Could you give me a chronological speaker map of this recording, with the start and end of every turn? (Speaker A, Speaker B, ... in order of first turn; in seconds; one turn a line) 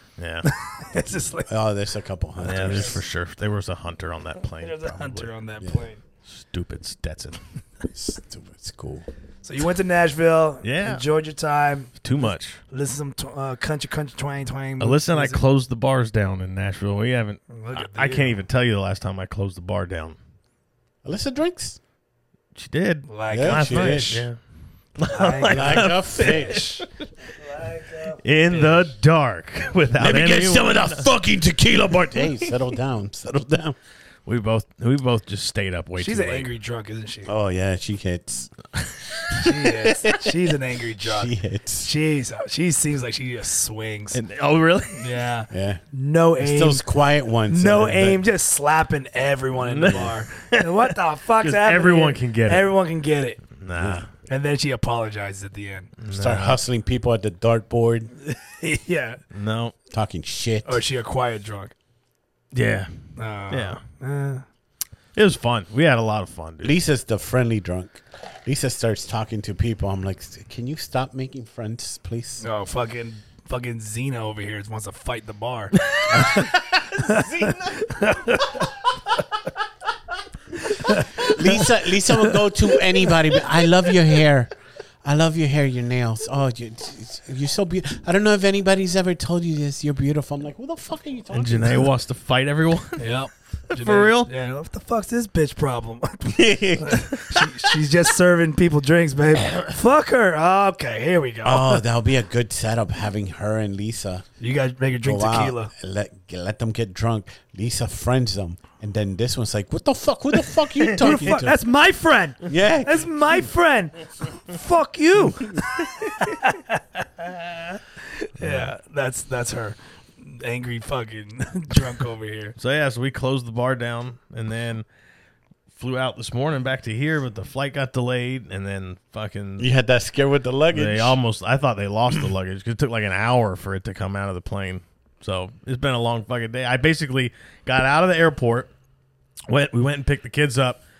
Speaker A: 0.2-0.5
Speaker B: 0.4-1.5
Speaker C: 1.5-3.0
Speaker B: 2.4-3.0
Speaker A: 2.4-5.3
Speaker B: 4.6-6.0
Speaker A: 6.3-7.4
Speaker C: 7.9-9.1
Speaker B: 9.4-11.9
Speaker A: 10.6-11.0
Speaker A: 12.0-12.6
Speaker B: 12.7-15.4
Speaker A: 14.8-20.1
Speaker B: 17.5-18.4
Speaker C: 21.0-21.8
Speaker A: 22.5-24.4
Speaker B: 23.1-24.2
Speaker C: 23.3-24.2
Speaker A: 25.0-26.9
Speaker B: 25.1-28.9
Speaker C: 25.5-26.6
Speaker A: 28.1-31.1
Speaker C: 30.0-33.8
Speaker A: 34.2-36.5
Speaker B: 36.0-37.3
Speaker C: 37.2-38.5
Speaker A: 38.8-39.3
Speaker B: 39.4-44.2
Speaker C: 41.0-41.9
Speaker A: 44.1-45.1
Speaker B: 45.0-46.8
Speaker C: 45.5-45.8
Speaker C: 46.4-48.2
Speaker B: 47.5-53.4
Speaker A: 49.6-52.7
Speaker C: 49.9-50.1
Speaker A: 53.6-54.1
Speaker C: 53.8-54.0
Speaker B: 54.3-55.9
Speaker A: 56.0-56.6
Speaker C: 56.1-58.1
Speaker B: 58.2-59.2
Speaker A: 59.3-59.7
Speaker C: 59.9-60.8
Speaker B: 60.6-61.7
Speaker A: 62.5-63.0
Speaker B: 63.2-64.4
Speaker A: 63.5-63.8
Speaker A: 65.1-66.7
Speaker C: 66.6-72.4
Speaker B: 72.4-78.7
Speaker A: 75.9-78.0
Speaker B: 80.7-82.4
Speaker C: 81.2-84.5
Speaker C: 85.0-91.9
Speaker A: 91.3-93.0
Speaker B: 93.0-101.8
Speaker A: 93.7-94.3
Speaker C: 96.2-97.4
Speaker C: 101.4-104.2
Speaker B: 104.4-105.7
Speaker C: 105.0-111.6
Speaker B: 110.9-122.5
Speaker C: 112.4-113.1
Speaker A: 118.4-118.7
Speaker A: 122.6-124.8
Speaker A: 125.8-129.7
Speaker C: 129.6-131.2
Speaker A: 130.7-138.7
Speaker A: 139.5-140.8